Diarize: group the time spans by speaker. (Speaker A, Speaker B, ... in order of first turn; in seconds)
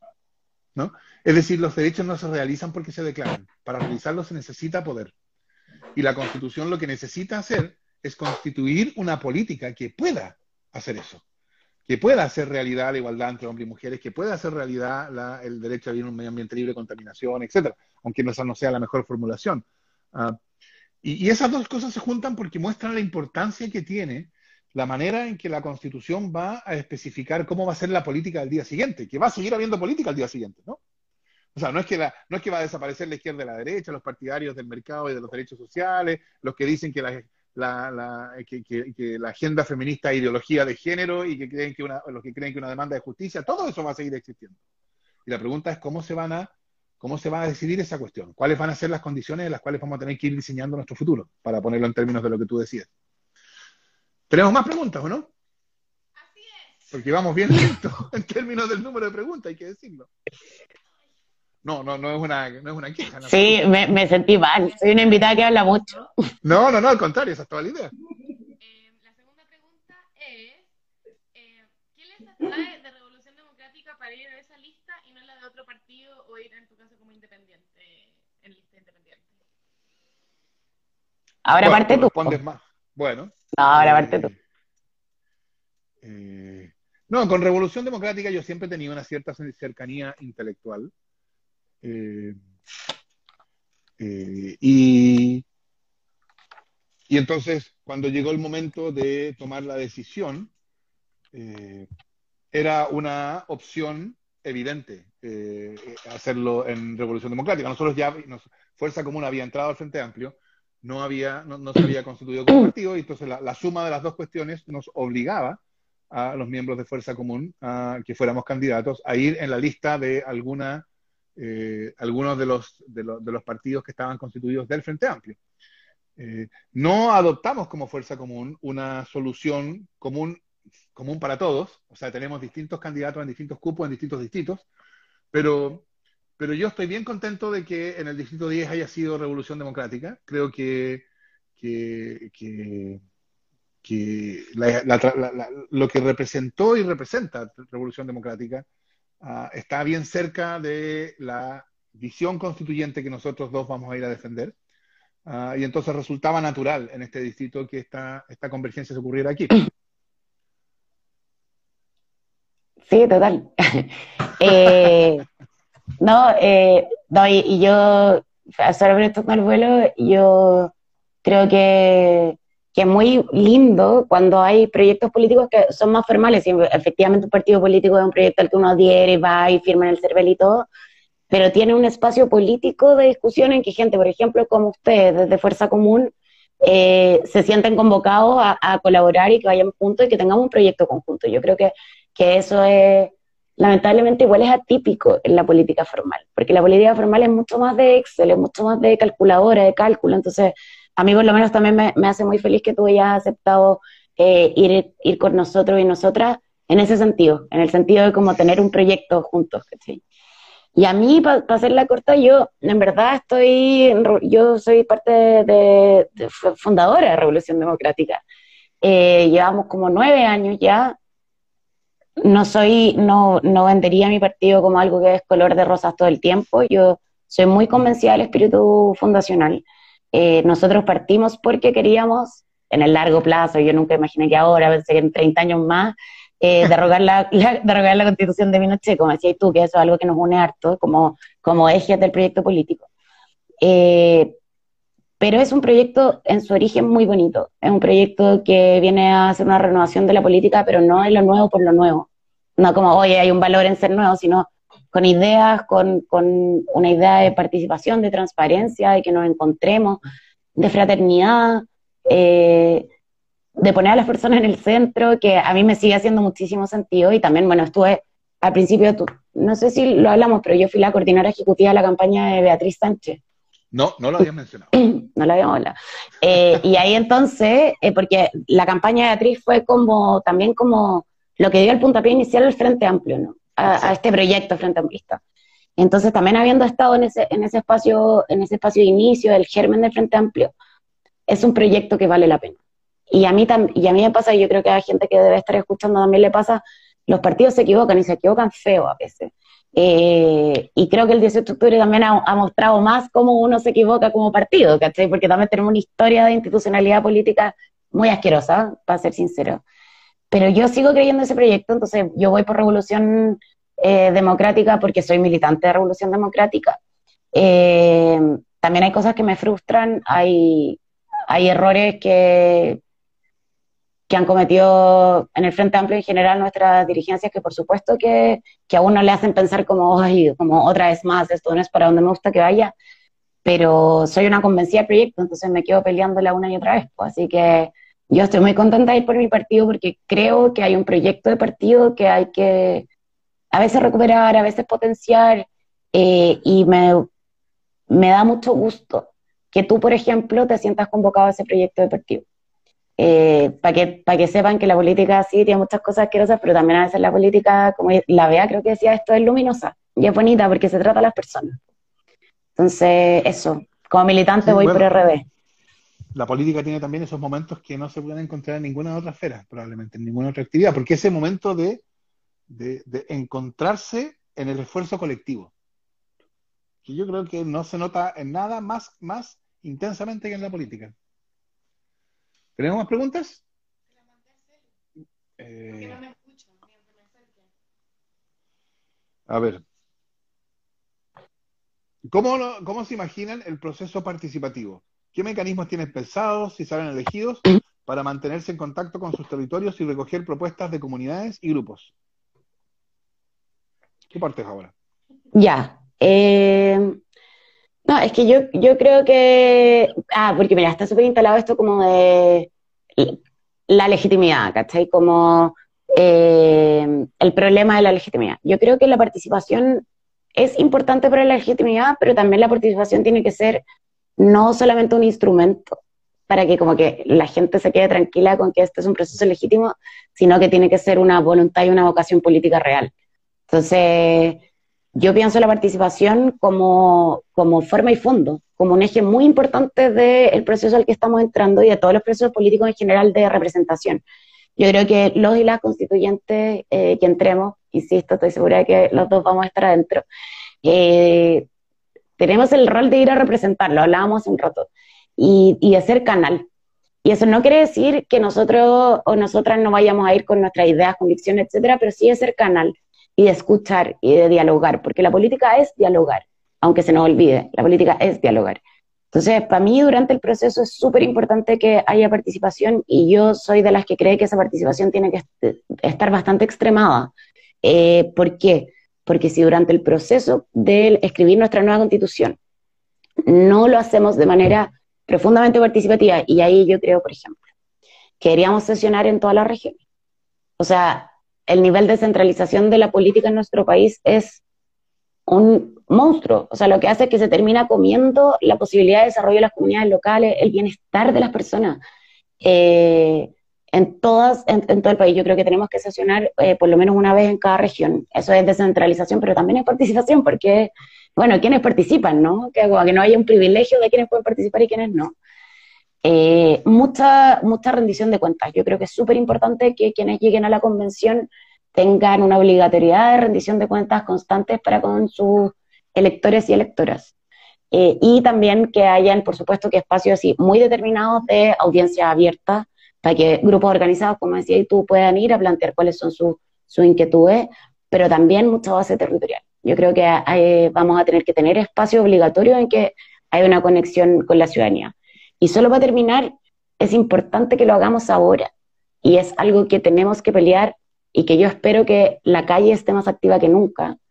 Speaker A: 0.7-5.1, 5.9-11.2, 11.9-20.4, 21.0-30.8, 31.5-44.6, 45.2-52.9, 54.3-55.3, 56.9-60.1, 61.6-63.6, 66.4-67.9, 81.6-84.3, 86.0-90.9, 91.8-92.4, 94.0-95.4, 97.1-100.5, 101.3-101.9, 102.5-115.6, 116.1-120.8, 121.3-125.4, 126.2-130.4, 130.9-134.7, 135.3-135.8, 136.4-141.0, 141.6-143.0, 143.8-148.7, 149.2-154.5, 155.2-159.6, 273.7-274.7, 283.6-283.9, 364.4-364.9, 366.1-371.8, 372.5-375.5, 376.8-380.9, 382.6-383.4, 385.4-386.0, 389.3-389.6, 392.1-401.9, 404.1-404.7
Speaker B: 56.2-56.9, 64.7-65.5, 68.6-70.7, 71.3-79.3, 383.9-384.6, 385.7-387.5
Speaker C: 63.2-66.1, 81.5-82.4, 83.5-84.3, 162.9-165.2, 166.0-170.7, 171.2-180.7, 181.3-186.1, 186.6-210.0, 210.8-218.2, 218.8-220.9, 222.2-242.9, 243.6-244.3, 245.2-260.0, 260.6-262.9, 263.6-273.2, 274.7-285.2, 285.8-290.5, 291.3-292.6, 293.1-309.6, 310.3-316.8, 317.3-322.8, 324.1-332.7, 333.4-342.9, 343.5-347.1, 347.9-352.2, 353.0-361.6, 362.6-365.2, 405.3-407.0, 407.9-419.8, 420.4-423.6, 424.2-432.9, 433.5-434.4, 434.9-444.0, 444.6-450.0, 450.6-451.4, 452.2-456.5, 457.0-468.6, 469.1-477.1, 477.6-482.4, 483.2-487.4, 488.2-489.8, 490.6-494.4, 495.3-501.8, 502.4-515.1, 516.0-527.1, 527.7-548.5, 549.0-554.0